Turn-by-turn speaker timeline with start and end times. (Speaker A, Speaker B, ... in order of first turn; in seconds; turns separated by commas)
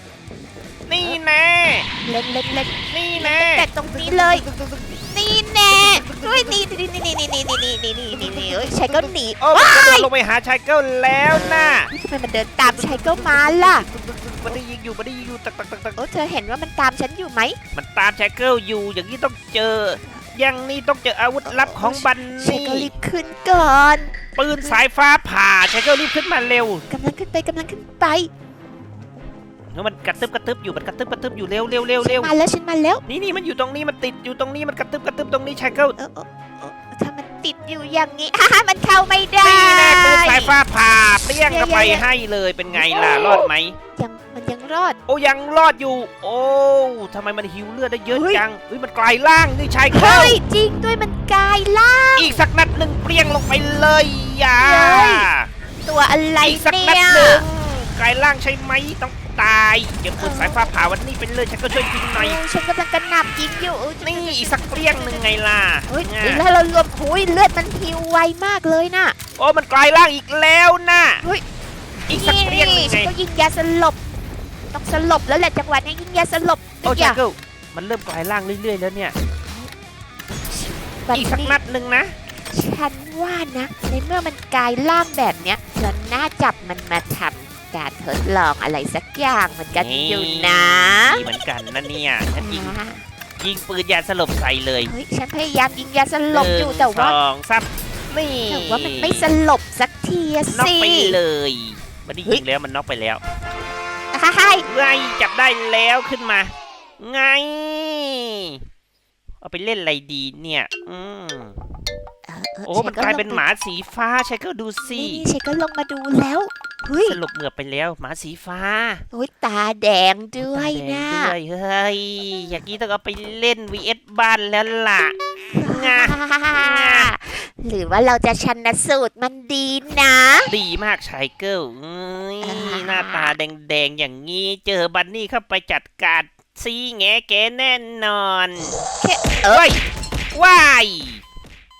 Speaker A: 0.8-1.9, Speaker B: 2.0-4.5, Speaker A: 2.7-5.0, Speaker B: 5.1-10.1, Speaker A: 5.7-6.6, Speaker A: 8.1-11.9, Speaker B: 11.8-13.9, Speaker A: 12.6-16.0, Speaker B: 15.9-17.6, Speaker A: 17.7-22.9, Speaker B: 21.4-24.8, Speaker A: 24.4-26.9, Speaker B: 26.9-28.3, Speaker A: 29.7-32.3, Speaker B: 32.0-33.0, Speaker A: 33.1-36.0, Speaker B: 36.0-40.5, Speaker A: 39.4-43.8, Speaker B: 41.3-42.0, Speaker B: 43.9-45.0, Speaker A: 45.1-50.4, Speaker B: 48.1-48.4, Speaker B: 49.9-52.4, Speaker A: 52.1-55.5, Speaker B: 54.6-55.3, Speaker B: 55.8-57.5, Speaker A: 56.4-62.4, Speaker B: 60.2-60.7, Speaker B: 62.1-65.2, Speaker A: 64.0-66.4, Speaker B: 65.9-69.2, Speaker A: 69.3-71.2, Speaker A: 72.1-73.1, Speaker B: 72.1-74.0, Speaker B: 74.7-77.2, Speaker A: 76.8-79.1, Speaker B: 80.5-81.6, Speaker A: 81.1-82.1, Speaker B: 82.5-91.2, Speaker A: 89.7-92.8, Speaker B: 92.3-93.0, Speaker A: 93.4-94.9, Speaker B: 94.8-97.2, Speaker A: 96.3-99.3, Speaker B: 98.5-101.2, Speaker A: 100.5-103.2, Speaker B: 104.1-104.7, Speaker A: 104.7-108.6, Speaker A: 109.4-111.8, Speaker B: 112.3-113.4, Speaker A: 112.6-115.3, Speaker B: 114.8-117.2, Speaker A: 117.0-119.0, Speaker B: 119.1-121.3, Speaker A: 120.4-127.1, Speaker B: 125.5-130.5, Speaker A: 130.4-138.8, Speaker B: 132.4-133.3, Speaker B: 139.0-139.7, Speaker A: 139.4-139.8, Speaker A: 140.3-141.2